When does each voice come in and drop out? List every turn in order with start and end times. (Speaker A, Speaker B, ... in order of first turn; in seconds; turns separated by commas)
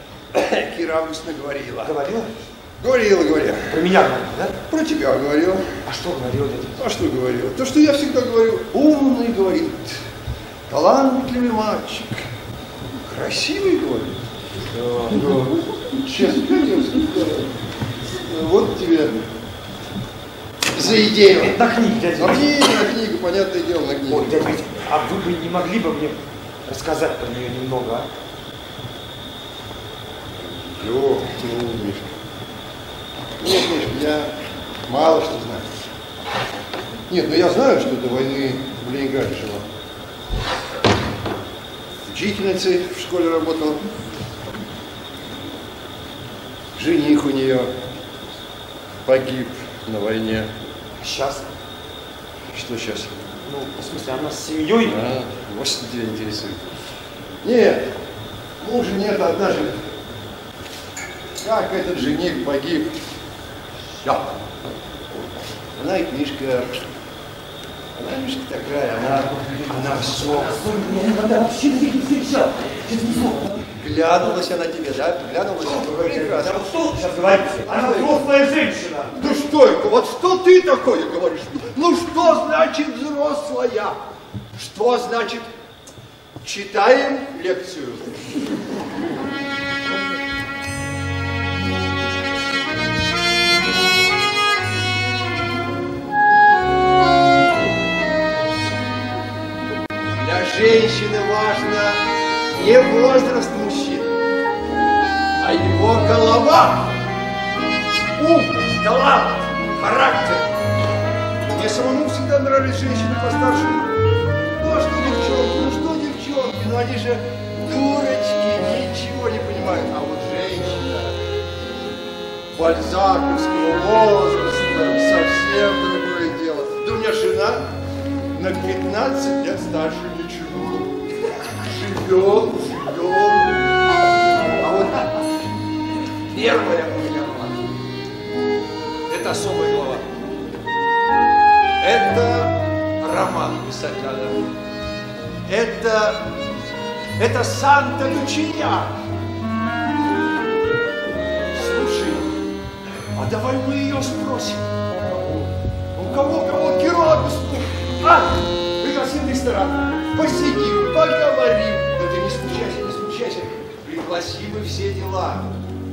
Speaker A: 0.3-2.0, Speaker B: 1.8-2.4, Speaker A: 2.8-3.9, Speaker B: 3.7-4.6, Speaker A: 4.7-5.8, Speaker B: 5.8-6.8, Speaker A: 6.8-10.0, Speaker A: 10.7-12.3, Speaker A: 13.0-14.2, Speaker A: 14.7-17.5, Speaker A: 18.1-19.2, Speaker A: 20.8-21.6, Speaker B: 20.8-22.8, Speaker A: 22.1-24.5, Speaker B: 24.1-28.1, Speaker A: 30.3-32.1, Speaker A: 33.4-34.3, Speaker A: 34.9-35.7, Speaker A: 37.1-39.7, Speaker A: 42.1-43.9, Speaker A: 46.8-47.7, Speaker A: 49.1-50.5, Speaker B: 51.0-51.5, Speaker A: 52.5-53.1, Speaker B: 53.4-55.0, Speaker A: 54.8-56.6, Speaker A: 57.4-57.8, Speaker A: 58.6-59.8, Speaker A: 61.4-62.9, Speaker A: 64.0-64.3, Speaker A: 65.6-66.8, Speaker A: 68.0-70.6, Speaker B: 69.1-73.7, Speaker A: 73.7-76.8, Speaker B: 75.6-79.2, Speaker A: 77.5-78.3, Speaker A: 79.1-84.0, Speaker A: 84.5-85.5, Speaker A: 86.4-88.2, Speaker A: 100.1-102.0, Speaker A: 102.5-104.1, Speaker A: 105.4-106.9, Speaker A: 108.2-110.5, Speaker A: 111.5-114.0, Speaker A: 114.5-121.2, Speaker A: 122.5-127.7, Speaker A: 128.3-133.6, Speaker A: 134.4-135.2, Speaker A: 136.3-137.7, Speaker A: 139.1-140.1, Speaker A: 141.8-144.4, Speaker A: 145.5-146.3, Speaker A: 147.2-148.9, Speaker A: 151.5-152.3, Speaker A: 153.1-154.6, Speaker A: 155.9-165.5